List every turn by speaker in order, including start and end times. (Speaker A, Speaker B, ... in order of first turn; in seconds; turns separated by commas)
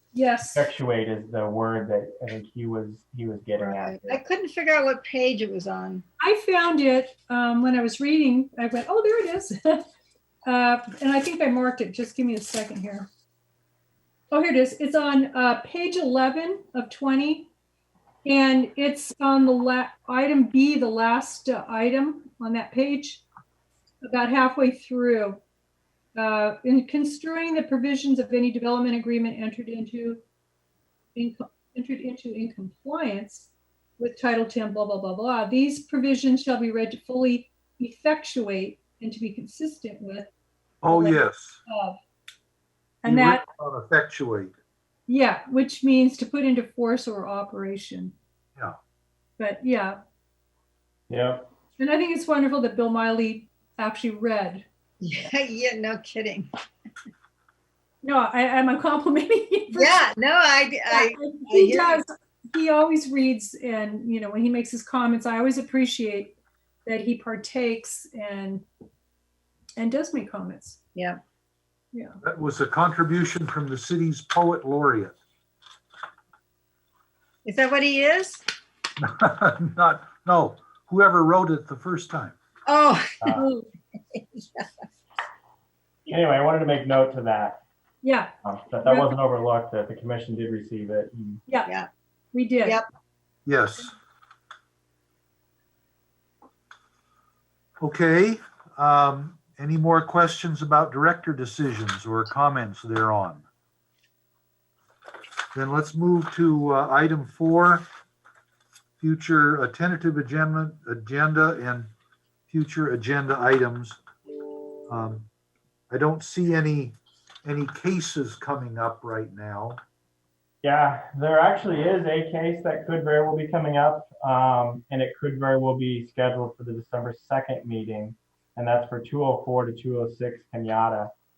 Speaker A: 0.1-0.7, Speaker B: 0.5-4.2, Speaker C: 3.6-6.0, Speaker A: 6.2-9.9, Speaker A: 10.4-13.1, Speaker A: 14.3-17.5, Speaker A: 18.2-23.2, Speaker A: 24.0-25.4, Speaker A: 26.1-30.2, Speaker A: 31.1-40.3, Speaker D: 40.8-41.6, Speaker A: 40.9-42.0, Speaker A: 43.0-43.4, Speaker D: 43.0-44.5, Speaker A: 45.1-48.1, Speaker A: 49.4-50.0, Speaker B: 51.1-51.5, Speaker A: 51.8-54.6, Speaker C: 55.0-56.5, Speaker A: 58.0-60.1, Speaker C: 59.7-62.0, Speaker A: 60.9-68.7, Speaker A: 69.8-70.8, Speaker A: 71.9-72.2, Speaker D: 72.2-75.1, Speaker C: 77.5-78.4, Speaker D: 79.0-82.4, Speaker C: 82.7-84.9, Speaker A: 83.3-83.7, Speaker B: 86.1-87.6, Speaker A: 88.0-88.3, Speaker B: 88.5-91.4, Speaker A: 88.8-89.1, Speaker A: 91.5-91.8, Speaker A: 92.3-92.8, Speaker D: 93.5-93.9, Speaker D: 97.8-103.4, Speaker D: 105.5-107.9, Speaker D: 109.0-111.9, Speaker D: 112.5-114.0, Speaker D: 114.9-115.3, Speaker D: 115.9-119.8, Speaker B: 120.6-131.1